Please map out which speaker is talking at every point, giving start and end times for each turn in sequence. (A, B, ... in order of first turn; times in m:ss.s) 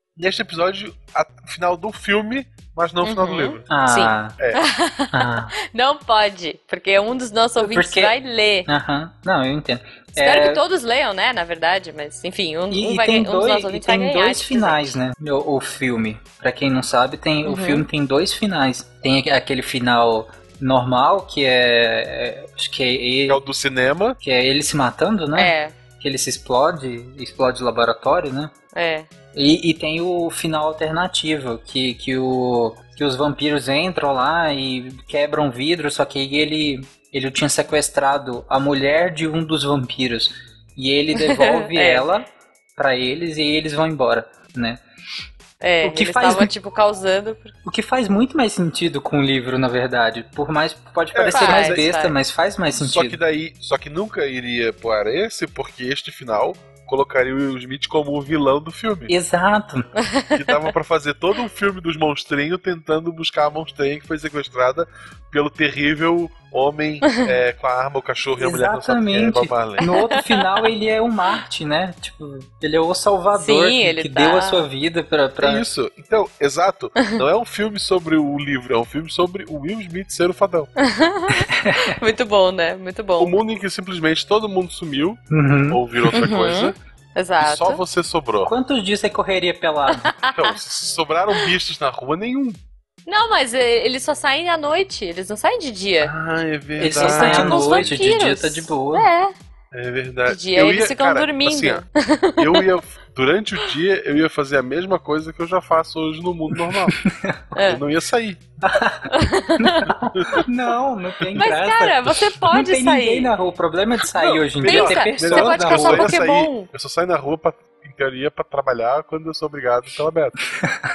0:00.2-0:03.7 A
0:03.0-0:08.7 B
0:03.7-0:04.4 C
0:05.1-0:05.5 C
0:07.6-0:08.1 C
0:08.7-0:10.6 C
0:10.2-0:15.0 B
0:12.7-0:23.4 C
0:17.4-0:17.9 B
0:23.3-0:24.2 A
0:24.2-0:28.5 C
0:25.4-0:25.8 B
0:28.7-0:29.1 B
0:29.3-0:42.3 C
0:41.2-0:42.1 B
0:42.8-0:44.8 C
0:45.6-0:47.5 B
0:45.8-0:46.5 C
0:47.7-0:53.2 C
0:51.1-0:51.8 A
0:51.3-0:52.2 B
0:52.8-0:59.1 A
0:59.1-0:59.9 C
1:00.0-1:00.7 B
1:00.3-1:09.8 A
1:08.4-1:15.7 C
1:09.8-1:10.6 B
1:13.4-1:14.7 B
1:15.4-1:20.7 A
1:20.8-1:23.3 B
1:21.5-1:22.0 C
1:23.2-1:26.8 A
1:25.3-1:26.2 C
1:26.1-1:27.8 B
1:27.4-1:28.5 A
1:28.4-1:30.1 C
1:29.9-1:30.6 B
1:30.4-1:32.6 A
1:33.1-1:36.1 B
1:36.0-1:38.0 A
1:36.8-1:39.1 C
1:37.0-1:39.3 B
1:39.7-1:41.9 A
1:40.3-1:42.6 B
1:42.4-1:47.0 A
1:46.7-1:47.4 C
1:47.6-1:47.8 B
1:47.6-1:48.4 A
1:48.6-1:56.1 C
1:49.1-1:49.9 B
1:50.2-1:50.4 A
1:51.4-1:53.3 B
1:54.2-2:00.4 A
1:54.6-1:56.7 B